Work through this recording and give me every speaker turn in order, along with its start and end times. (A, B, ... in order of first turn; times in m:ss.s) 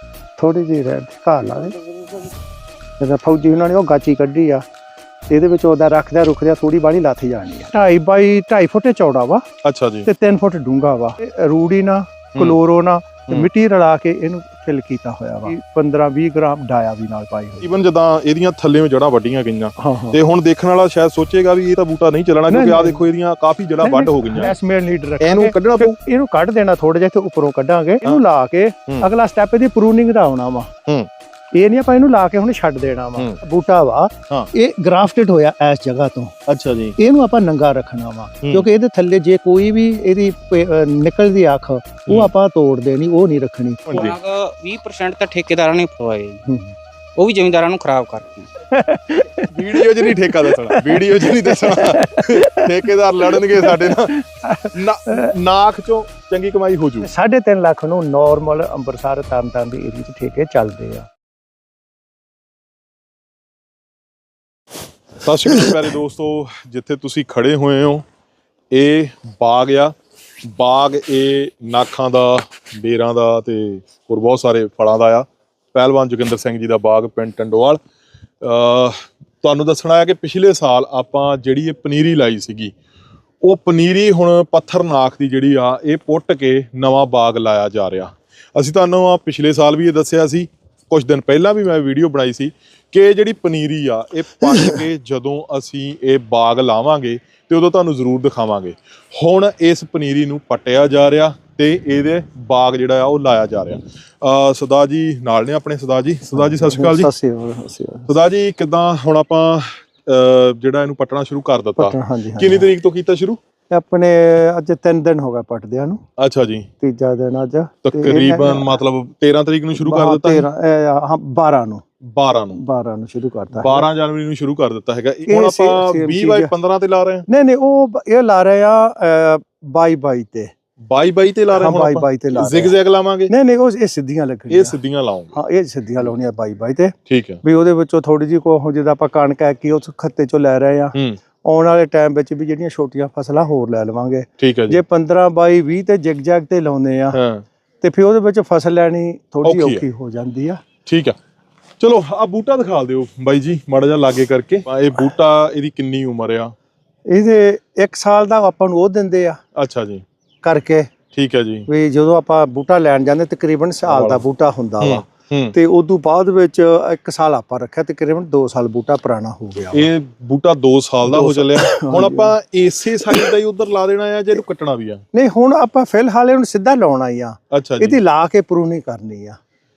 0:00.4-0:01.8 A
0:03.0-0:04.6 A
0:05.3-0:09.4 A
0:09.6-0:10.1 B
0:10.0-0:17.8 A
0:17.6-0:24.5 B
0:19.8-0:20.2 A
0:22.5-0:23.0 A
0:23.8-0:30.7 A
0:25.2-0:26.0 B
0:31.6-0:36.3 A
0:36.5-0:37.0 B
0:37.0-0:44.0 A
0:43.9-0:44.2 B
0:43.9-0:46.4 C
0:46.5-0:46.7 A
0:47.2-0:48.5 C
0:48.7-0:55.3 A
0:49.5-0:54.2 B
0:54.7-0:57.1 B
0:57.0-1:01.1 A
1:05.2-1:08.0 B
1:08.7-1:17.8 B
1:18.4-1:22.7 B
1:23.4-1:47.1 B
1:46.3-1:48.1 A
1:48.1-1:53.4 B
1:51.8-1:52.7 A
1:53.7-1:56.0 A
1:56.2-1:56.7 B
1:56.8-1:58.8 A
1:57.8-2:00.5 B
1:59.8-2:01.8 A
2:02.0-2:02.6 B
2:02.5-2:03.9 A
2:03.5-2:07.2 B
2:05.3-2:06.5 A
2:07.3-2:10.5 A
2:10.8-2:13.3 B
2:11.5-2:12.7 A
2:13.3-2:14.8 A
2:14.5-2:15.4 B
2:15.3-2:27.2 A
2:17.1-2:17.4 B
2:24.4-2:24.8 B
2:27.1-2:27.4 B
2:27.8-2:30.6 A
2:29.4-2:29.8 B
2:30.9-2:31.2 B
2:31.8-2:36.5 B
2:37.1-2:39.4 A
2:39.6-2:40.0 B
2:40.4-2:40.9 A
2:41.1-2:41.7 B
2:41.7-2:49.9 A
2:43.9-2:44.2 B
2:44.8-2:45.6 B
2:49.7-2:55.0 B
2:51.0-2:52.3 A
2:53.1-2:53.3 A
2:55.1-2:59.4 A
2:57.5-2:58.0 B